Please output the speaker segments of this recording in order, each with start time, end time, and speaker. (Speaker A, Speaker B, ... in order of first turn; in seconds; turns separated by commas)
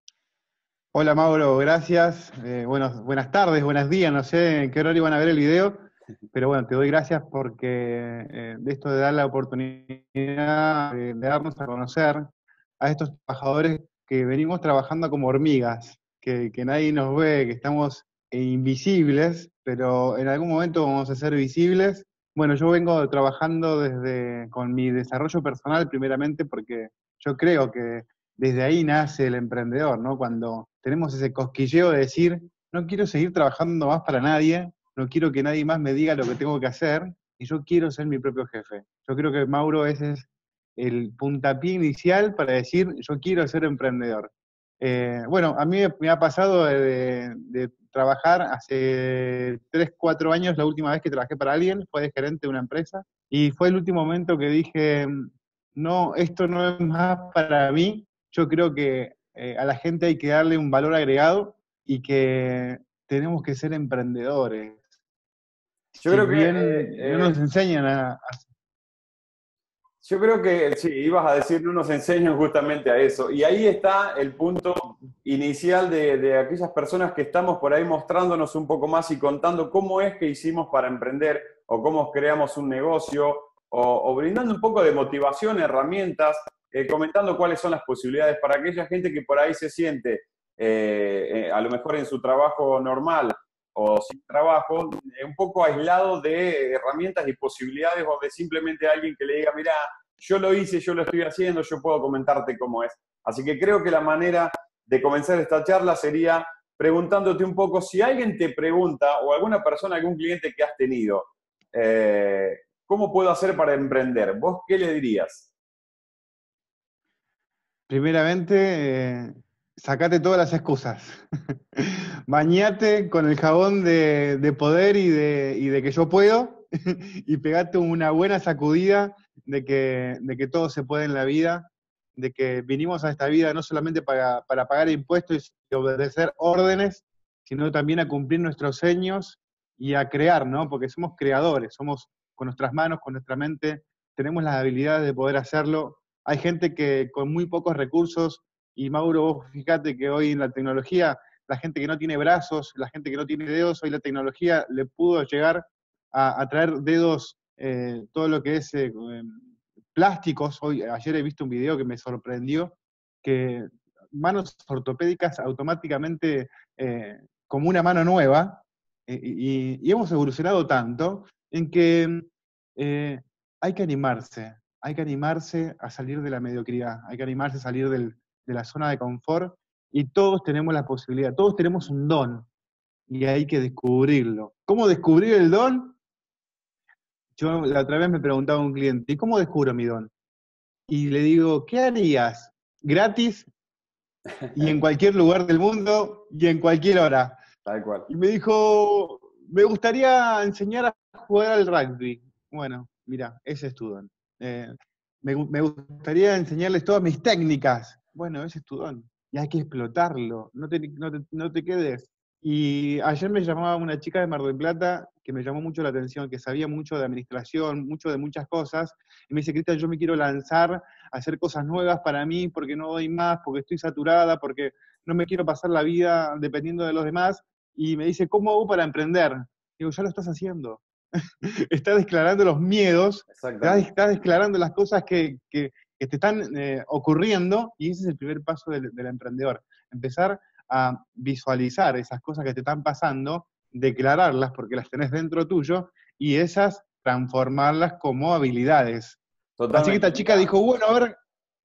Speaker A: 0.9-5.8, Speaker A: 6.3-64.8, Speaker B: 66.0-67.3, Speaker A: 66.1-68.5, Speaker B: 70.0-115.5, Speaker A: 117.9-159.4, Speaker A: 159.9-182.5, Speaker A: 183.1-186.0, Speaker A: 187.4-190.1, Speaker A: 190.9-193.5, Speaker B: 194.5-194.7, Speaker A: 194.6-197.4, Speaker B: 197.7-198.1, Speaker A: 198.1-204.7, Speaker A: 205.2-230.8, Speaker A: 231.4-249.2, Speaker B: 233.3-233.9, Speaker B: 249.6-250.5, Speaker A: 249.7-251.2